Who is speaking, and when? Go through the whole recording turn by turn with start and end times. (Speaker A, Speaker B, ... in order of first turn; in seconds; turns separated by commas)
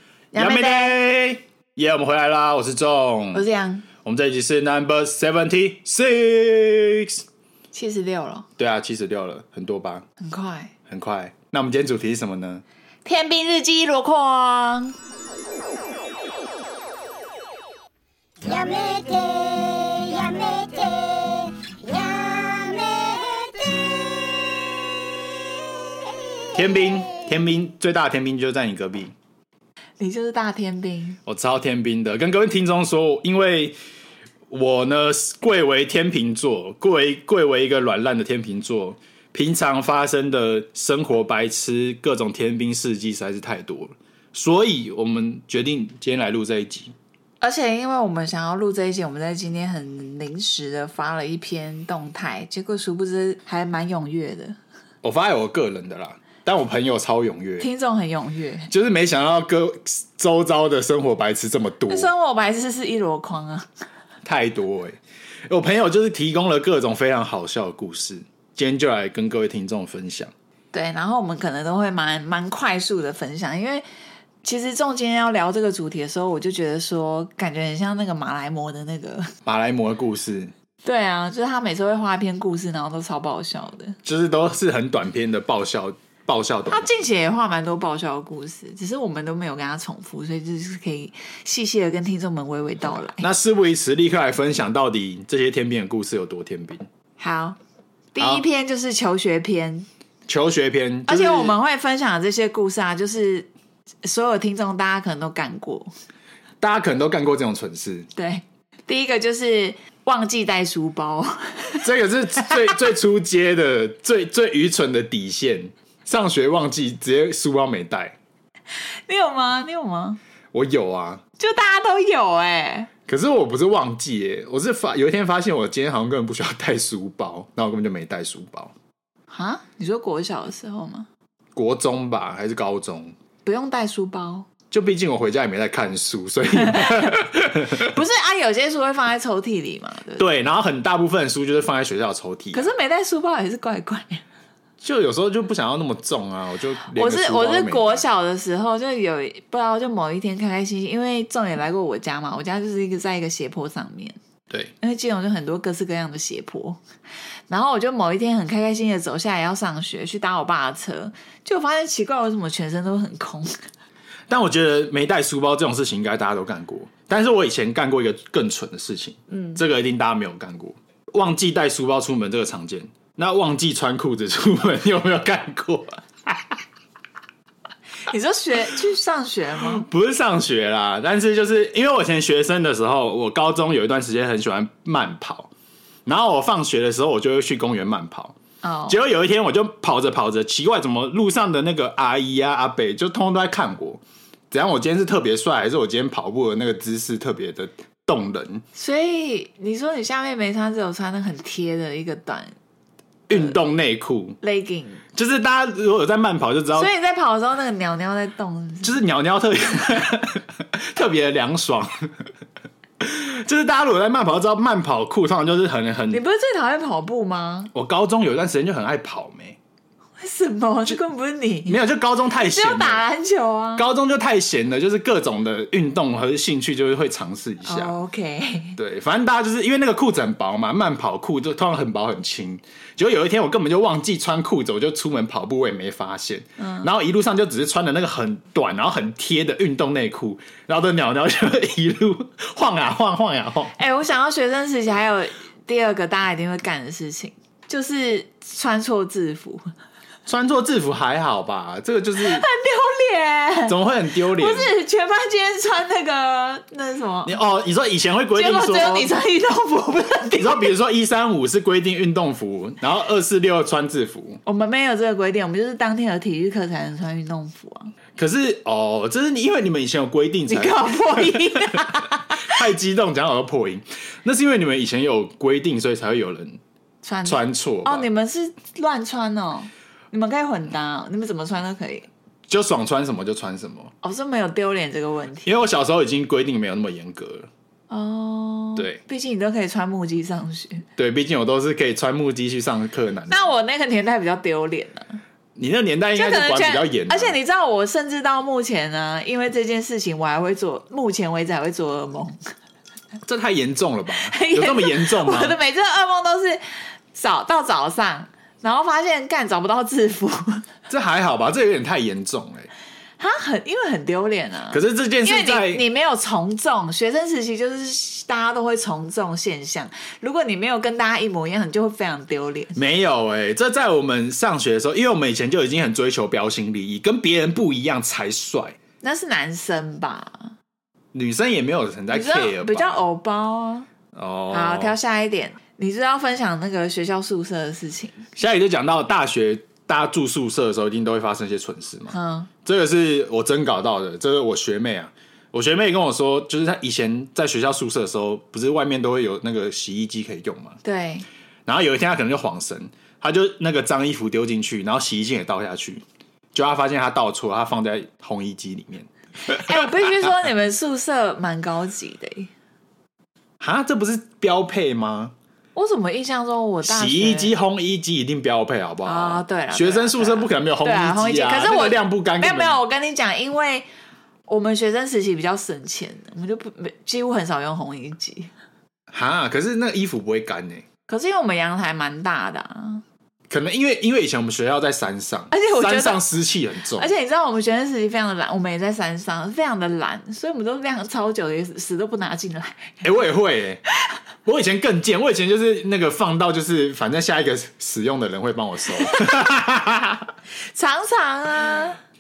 Speaker A: 0.3-1.0, Speaker B: 0.4-3.4, Speaker A: 3.3-3.9, Speaker B: 4.0-7.2, Speaker A: 7.7-8.5, Speaker B: 8.6-10.1, Speaker A: 10.2-10.7, Speaker B: 10.9-12.6, Speaker A: 13.1-15.0, Speaker C: 18.4-24.7, Speaker B: 26.5-29.1, Speaker A: 30.0-31.2, Speaker B: 31.3-33.8, Speaker B: 34.5-46.9, Speaker A: 47.4-54.6, Speaker B: 55.0-57.7, Speaker A: 57.6-58.7, Speaker B: 58.7-62.1, Speaker A: 61.9-63.7, Speaker B: 64.2-65.0, Speaker B: 65.5-70.3, Speaker A: 70.7-73.8, Speaker A: 74.4-79.3, Speaker B: 79.5-80.5, Speaker A: 80.8-84.0, Speaker B: 84.0-86.9, Speaker A: 86.7-93.3, Speaker B: 93.0-96.9, Speaker A: 97.2-97.6, Speaker A: 98.1-99.9, Speaker B: 98.2-98.5, Speaker B: 100.3-101.6, Speaker A: 101.1-103.5, Speaker A: 104.0-105.9, Speaker B: 106.6-108.1, Speaker A: 108.2-111.9, Speaker B: 111.8-118.2, Speaker A: 119.1-120.2, Speaker B: 120.5-121.2, Speaker A: 121.4-122.9, Speaker B: 123.1-128.7, Speaker A: 129.3-131.1, Speaker B: 131.6-133.1, Speaker A: 133.4-134.5, Speaker B: 134.7-137.9, Speaker A: 136.6-137.2, Speaker A: 137.7-140.2, Speaker B: 140.2-142.7, Speaker A: 142.5-144.2, Speaker B: 144.8-148.1, Speaker A: 146.9-154.2, Speaker A: 154.8-156.8, Speaker A: 157.5-163.6, Speaker B: 164.3-176.6, Speaker A: 169.3-169.6, Speaker A: 178.1-179.9, Speaker B: 179.6-185.5, Speaker B: 186.1-188.4, Speaker A: 188.6-189.0, Speaker B: 188.9-198.6, Speaker A: 198.8-202.5, Speaker B: 203.3-204.4, Speaker A: 204.4-205.0, Speaker B: 205.2-206.9, Speaker A: 206.8-209.0, Speaker B: 208.8-212.1, Speaker B: 213.0-216.2, Speaker A: 216.1-217.7, Speaker B: 217.7-219.6, Speaker A: 220.2-221.8, Speaker B: 221.7-223.1, Speaker A: 222.4-223.8, Speaker B: 223.8-227.9, Speaker A: 227.6-228.8, Speaker B: 228.8-243.7, Speaker A: 236.6-236.9, Speaker A: 243.8-249.7, Speaker B: 250.3-252.5, Speaker A: 252.2-257.4, Speaker B: 253.7-254.7, Speaker B: 257.2-259.1, Speaker A: 258.4-260.7, Speaker B: 260.4-264.4, Speaker A: 264.4-267.9, Speaker B: 268.2-276.6, Speaker A: 270.5-272.6, Speaker A: 277.0-282.1, Speaker B: 277.2-278.1, Speaker B: 282.5-283.9, Speaker A: 284.0-285.6, Speaker B: 285.4-287.5, Speaker A: 287.9-290.9, Speaker B: 291.0-293.5, Speaker A: 293.3-295.2, Speaker B: 295.6-297.4, Speaker A: 296.1-302.5, Speaker B: 303.2-305.6, Speaker A: 304.2-310.7, Speaker B: 310.9-312.7, Speaker A: 313.2-322.8, Speaker B: 314.7-315.8, Speaker B: 322.8-328.8, Speaker A: 329.0-330.5, Speaker B: 331.1-333.0, Speaker A: 332.1-333.9, Speaker B: 334.1-335.0, Speaker A: 334.5-338.2, Speaker B: 338.4-350.8, Speaker A: 342.1-342.5, Speaker A: 350.8-351.3, Speaker B: 351.7-356.0, Speaker B: 356.5-359.1, Speaker A: 359.5-362.5, Speaker B: 363.6-365.3, Speaker A: 365.8-367.5, Speaker B: 366.8-372.8, Speaker A: 369.1-373.9, Speaker A: 374.5-378.5, Speaker B: 379.1-380.9, Speaker A: 381.1-383.0, Speaker B: 383.5-387.1, Speaker A: 385.5-386.2, Speaker A: 386.9-393.0, Speaker B: 393.0-393.8, Speaker B: 394.4-400.3, Speaker A: 399.0-399.3, Speaker A: 400.6-402.0